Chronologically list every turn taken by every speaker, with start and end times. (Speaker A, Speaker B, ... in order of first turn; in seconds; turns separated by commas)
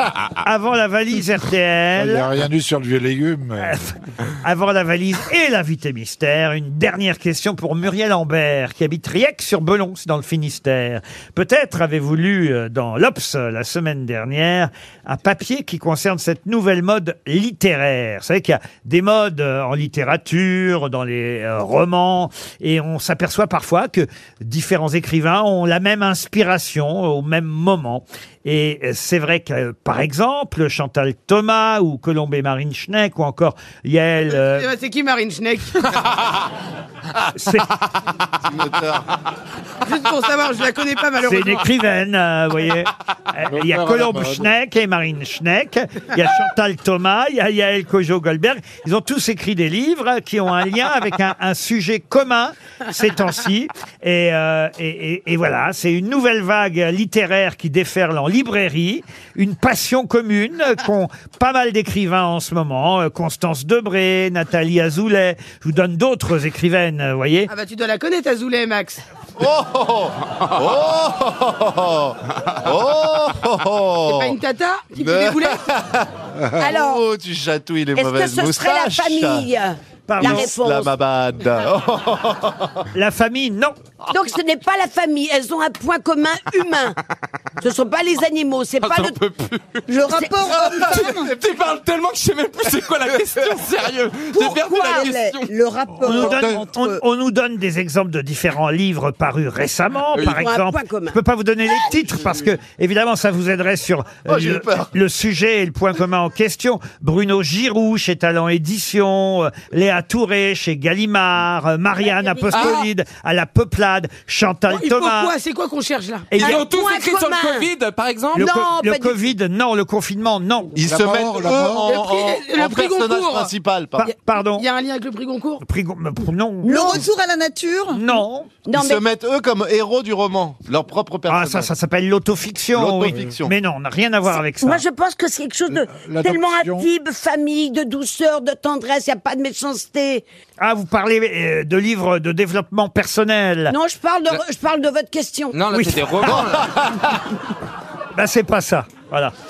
Speaker A: 0.4-2.3, Speaker B: 2.0-3.8, Speaker A: 3.6-34.7, Speaker C: 34.3-35.8, Speaker A: 37.4-37.7, Speaker D: 38.4-39.1, Speaker C: 39.8-41.7, Speaker A: 41.2-67.5, Speaker B: 43.5-44.5, Speaker C: 67.5-69.0, Speaker D: 69.4-74.4, Speaker C: 74.0-75.7, Speaker D: 75.0-79.5, Speaker B: 76.4-76.6, Speaker C: 76.6-77.0, Speaker E: 78.0-80.9, Speaker A: 80.1-80.5, Speaker D: 80.2-82.8, Speaker A: 82.9-83.8, Speaker E: 84.1-87.0, Speaker E: 87.6-89.2, Speaker F: 88.8-89.8, Speaker G: 89.9-91.3, Speaker E: 90.0-90.4, Speaker F: 90.8-95.5, Speaker G: 94.3-97.0, Speaker B: 96.0-96.6, Speaker A: 96.0-115.3, Speaker E: 100.2-101.2, Speaker D: 104.3-104.9, Speaker E: 112.0-112.8, Speaker F: 112.5-112.8, Speaker C: 114.7-116.4, Speaker A: 116.3-116.6, Speaker F: 116.4-118.5, Speaker E: 116.4-117.7, Speaker A: 118.3-120.8, Speaker E: 118.3-119.2, Speaker D: 120.8-124.1, Speaker B: 120.8-122.0, Speaker C: 121.8-123.5, Speaker A: 124.0-124.7, Speaker C: 124.5-125.6, Speaker A: 125.6-127.0, Speaker E: 126.7-127.0, Speaker G: 126.7-128.0, Speaker A: 127.9-128.5, Speaker E: 128.7-129.0, Speaker D: 128.7-131.7, Speaker A: 131.3-134.8, Speaker D: 132.7-133.5, Speaker E: 134.3-140.2, Speaker B: 135.7-136.9, Speaker A: 140.6-143.8, Speaker E: 143.7-145.6, Speaker F: 145.5-146.8, Speaker A: 145.7-146.5, Speaker D: 146.3-146.9, Speaker A: 148.2-149.3